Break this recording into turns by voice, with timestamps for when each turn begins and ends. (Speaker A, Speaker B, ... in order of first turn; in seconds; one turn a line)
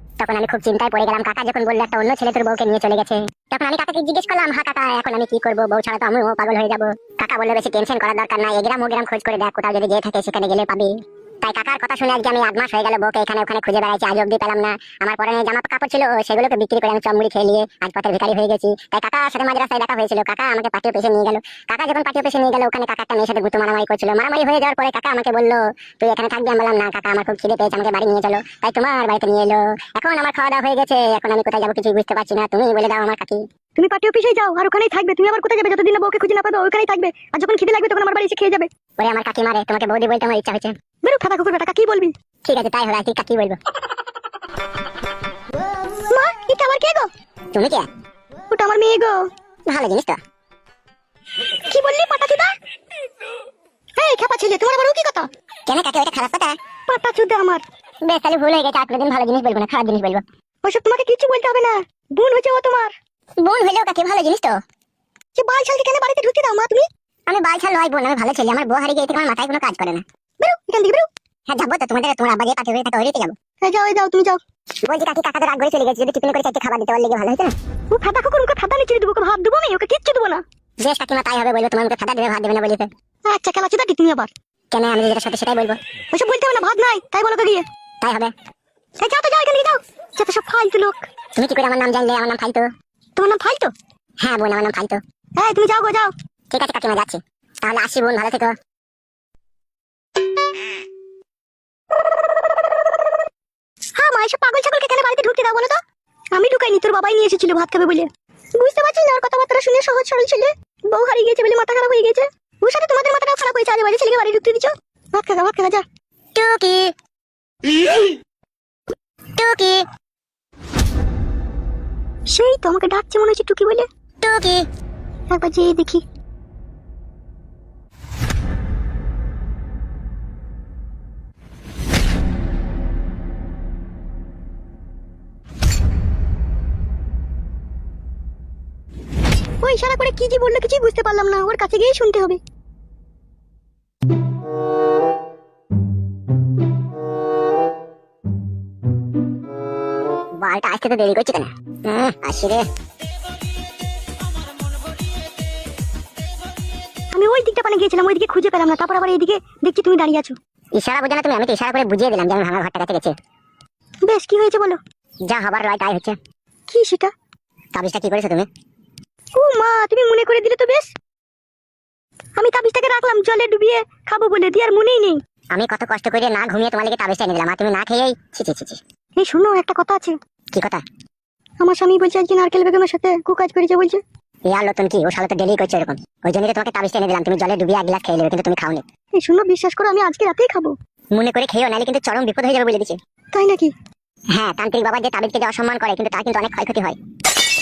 Speaker A: 0.2-33.4
Speaker B: 33.8-38.7
Speaker A: 39.0-40.7
Speaker B: 41.0-42.1
Speaker A: 42.4-43.6
Speaker B: 46.1-47.1
Speaker A: 47.5-47.9
Speaker B: 48.5-49.2
Speaker A: 49.7-50.2
Speaker B: 51.7-52.5
Speaker B: 54.0-55.3
Speaker A: 55.7-56.5
Speaker B: 56.9-57.6
Speaker A: 58.0-60.2
Speaker B: 60.6-62.9
Speaker A: 63.4-64.6
Speaker B: 65.3-66.8
Speaker A: 67.3-70.0
Speaker B: 70.4-71.1
Speaker A: 71.5-73.3
Speaker B: 73.6-74.4
Speaker A: 74.8-77.5
Speaker B: 77.9-80.4
Speaker A: 80.8-82.9
Speaker B: 83.3-84.3
Speaker A: 84.7-85.8
Speaker B: 86.1-87.6
Speaker A: 88.0-88.3
Speaker B: 89.0-91.0
Speaker A: 91.3-92.7
Speaker B: 93.2-93.7
Speaker A: 94.2-95.0
Speaker B: 95.4-96.1
Speaker A: 96.5-98.5
Speaker B: 104.0-105.8
Speaker B: 106.3-115.8
Speaker A: 116.3-116.9
Speaker A: 119.4-119.8
Speaker B: 122.3-123.8
Speaker A: 124.2-124.7
Speaker B: 125.3-126.0
Speaker B: 139.6-142.4
Speaker A: 150.4-152.7
Speaker B: 157.1-160.3
Speaker A: 160.8-163.1
Speaker B: 164.0-164.8
Speaker A: 165.3-166.2
Speaker B: 166.7-167.1
Speaker A: 167.7-168.5
Speaker B: 169.3-170.9
Speaker B: 172.3-175.2
Speaker A: 175.5-178.8
Speaker B: 179.2-180.2
Speaker A: 180.5-180.8
Speaker B: 181.6-184.0
Speaker A: 184.5-188.8
Speaker B: 189.2-190.7
Speaker A: 191.1-193.0
Speaker B: 193.3-193.7
Speaker A: 194.3-197.0